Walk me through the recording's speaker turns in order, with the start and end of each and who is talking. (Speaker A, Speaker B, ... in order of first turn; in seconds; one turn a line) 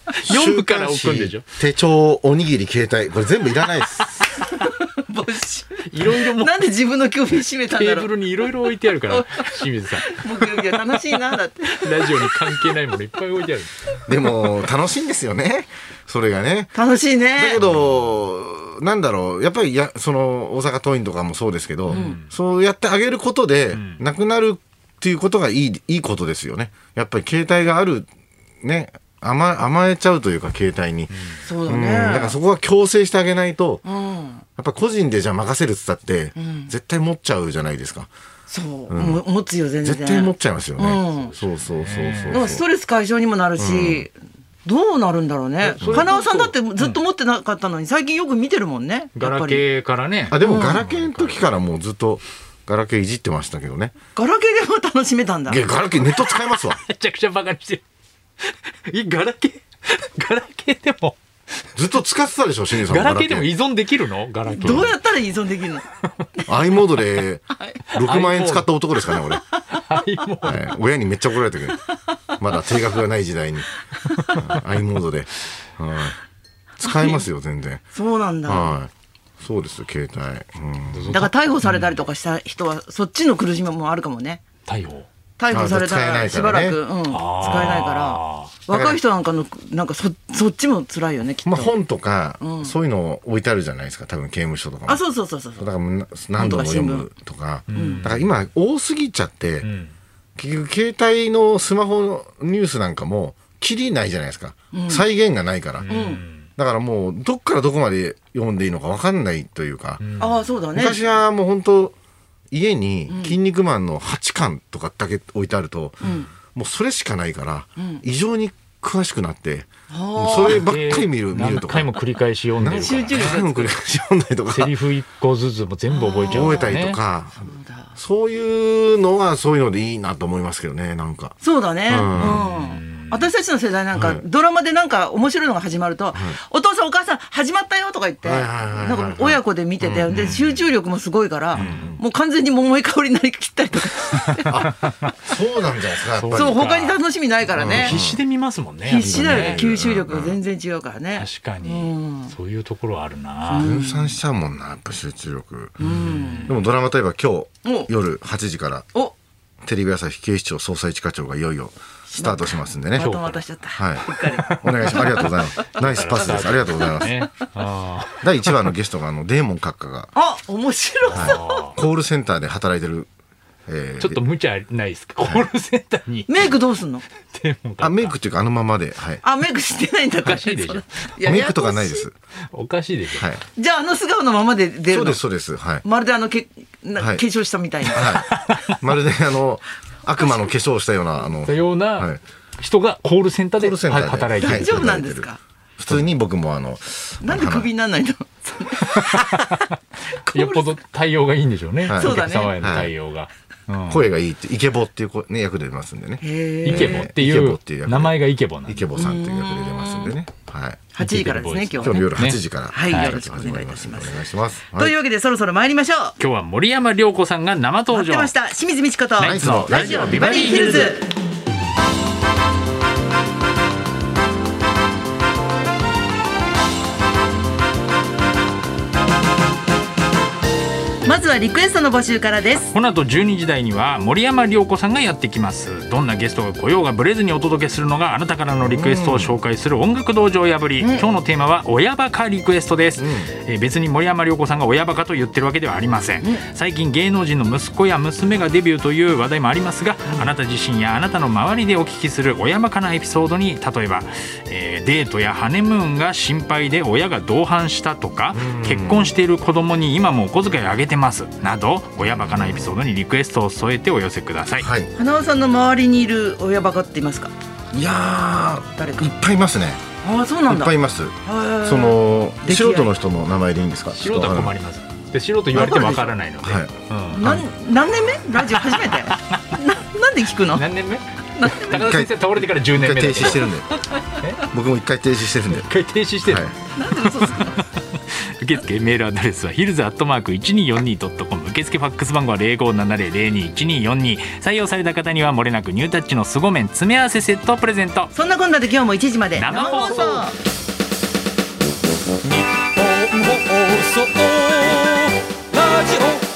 Speaker A: 0.2-4.4
Speaker B: 0.2-1.4
Speaker C: 4.4-8.1
Speaker B: 5.9-6.7
Speaker B: 7.7-14.0
Speaker C: 9.0-12.8
Speaker A: 14.1-16.7
Speaker C: 16.7-17.6
Speaker A: 17.4-28.1
Speaker B: 17.6-17.9
Speaker B: 21.9-22.3
Speaker C: 21.9-22.2
Speaker B: 23.7-24.0
Speaker A: 28.6-31.1
Speaker B: 31.1-31.4
Speaker C: 31.4-32.4
Speaker A: 31.7-33.8
Speaker C: 33.8-34.4
Speaker A: 34.6-38.1
Speaker C: 36.3-36.7
Speaker C: 38.5-41.3
Speaker A: 38.9-39.2
Speaker A: 39.8-42.6
Speaker B: 41.0-42.6
Speaker C: 42.3-44.1
Speaker A: 43.6-44.0
Speaker C: 44.6-49.6
Speaker B: 45.6-47.0
Speaker A: 45.8-46.1
Speaker B: 49.1-51.5
Speaker A: 50.3-53.9
Speaker C: 50.4-50.8
Speaker C: 54.1-55.7
Speaker A: 55.5-56.8
Speaker B: 56.1-57.8
Speaker B: 58.4-61.6
Speaker A: 61.8-63.5
Speaker B: 62.7-65.0
Speaker C: 64.5-65.8
Speaker A: 66.4-69.4
Speaker C: 67.5-67.8
Speaker B: 67.9-68.7
Speaker B: 69.7-70.6
Speaker A: 70.4-71.8
Speaker A: 72.4-73.7
Speaker C: 74.0-74.5
Speaker A: 74.3-76.2
Speaker A: 76.8-77.8
Speaker C: 76.8-77.2
Speaker C: 77.9-78.7
Speaker A: 78.5-81.2
Speaker B: 80.9-82.0
Speaker C: 81.1-84.4
Speaker B: 84.7-85.1
Speaker C: 85.4-91.7
Speaker A: 85.5-86.8
Speaker B: 87.1-88.5
Speaker A: 88.7-89.0
Speaker A: 91.4-95.0
Speaker C: 92.4-92.7
Speaker C: 94.9-95.7
Speaker A: 95.6-99.7
Speaker C: 96.3-97.1
Speaker B: 97.7-98.3
Speaker C: 97.7-98.1
Speaker B: 99.6-99.9
Speaker A: 100.4-106.0
Speaker C: 104.7-105.0
Speaker B: 105.8-106.5
Speaker C: 105.9-106.2
Speaker A: 106.6-110.0
Speaker B: 110.0-110.4
Speaker C: 110.2-111.0
Speaker A: 110.7-111.9
Speaker A: 112.5-122.0
Speaker C: 113.1-113.4
Speaker C: 116.0-116.3
Speaker C: 117.8-118.0
Speaker C: 119.9-120.7
Speaker B: 120.3-123.4
Speaker A: 122.6-124.8
Speaker C: 122.7-123.7
Speaker B: 124.5-127.0
Speaker C: 125.9-126.8
Speaker A: 126.3-131.3
Speaker C: 127.4-127.9
Speaker C: 131.4-144.5
Speaker A: 131.9-132.4
Speaker B: 132.1-133.3
Speaker A: 133.9-134.2
Speaker A: 136.1-136.4
Speaker A: 138.2-140.3
Speaker B: 140.1-140.6
Speaker B: 141.5-142.0
Speaker A: 141.5-142.0
Speaker A: 144.4-146.7
Speaker B: 144.8-145.1
Speaker B: 146.1-147.0
Speaker C: 146.3-148.0
Speaker A: 147.5-148.2
Speaker B: 147.5-149.6
Speaker C: 148.8-152.3
Speaker A: 149.0-150.4
Speaker B: 151.1-153.7
Speaker C: 153.4-154.2
Speaker A: 153.6-155.8
Speaker C: 155.8-156.6
Speaker B: 155.8-156.6
Speaker A: 156.4-158.9
Speaker C: 157.6-157.9
Speaker A: 159.6-163.1
Speaker C: 162.1-165.3
Speaker B: 162.9-163.4
Speaker A: 163.8-167.2
Speaker B: 164.1-168.7
Speaker C: 165.9-167.5
Speaker A: 168.2-170.1
Speaker C: 170.1-171.7
Speaker B: 171.1-171.8
Speaker A: 171.1-173.1
Speaker A: 173.7-174.2
Speaker B: 174.0-176.5
Speaker A: 175.2-175.5
Speaker C: 176.3-177.0
Speaker B: 177.3-178.2
Speaker A: 177.8-179.2
Speaker C: 179.2-182.1
Speaker B: 180.2-181.2
Speaker A: 181.2-182.1
Speaker B: 182.5-183.3
Speaker A: 183.1-183.4
Speaker C: 183.5-185.2
Speaker A: 184.9-185.8
Speaker C: 185.8-188.2
Speaker A: 187.8-192.2
Speaker B: 188.3-188.7
Speaker B: 191.4-195.0
Speaker A: 193.6-197.7
Speaker C: 194.4-195.4
Speaker C: 197.2-200.8
Speaker B: 198.8-204.1
Speaker A: 201.8-202.9
Speaker C: 201.9-202.6
Speaker A: 203.9-210.8
Speaker C: 206.2-207.1
Speaker B: 206.6-208.9
Speaker C: 208.9-210.1
Speaker C: 210.9-212.1
Speaker B: 211.0-213.2
Speaker A: 211.8-214.9
Speaker C: 212.7-216.2
Speaker B: 216.2-218.3
Speaker C: 217.9-221.1
Speaker B: 219.2-221.0
Speaker A: 219.2-221.0
Speaker C: 231.0-232.7
Speaker B: 232.7-264.7
Speaker A: 238.6-239.4
Speaker C: 240.8-241.1
Speaker A: 243.0-243.3
Speaker A: 258.3-259.1
Speaker A: 262.0-262.7
Speaker A: 264.6-264.9
Speaker C: 264.9-267.3
Speaker A: 267.7-269.8
Speaker C: 268.7-269.1
Speaker C: 270.0-270.7
Speaker A: 270.5-274.6
Speaker C: 271.2-272.9
Speaker B: 273.9-277.3
Speaker C: 275.5-276.1
Speaker A: 276.4-277.4
Speaker C: 277.1-280.7
Speaker B: 278.5-279.4
Speaker B: 280.5-283.6
Speaker C: 281.4-281.9
Speaker A: 281.7-283.7
Speaker B: 284.1-284.4
Speaker A: 284.4-285.7
Speaker B: 285.4-298.1
Speaker A: 286.2-286.5
Speaker C: 286.7-287.6
Speaker C: 298.1-300.4
Speaker B: 299.4-300.3
Speaker B: 303.1-304.8
Speaker B: 305.6-306.2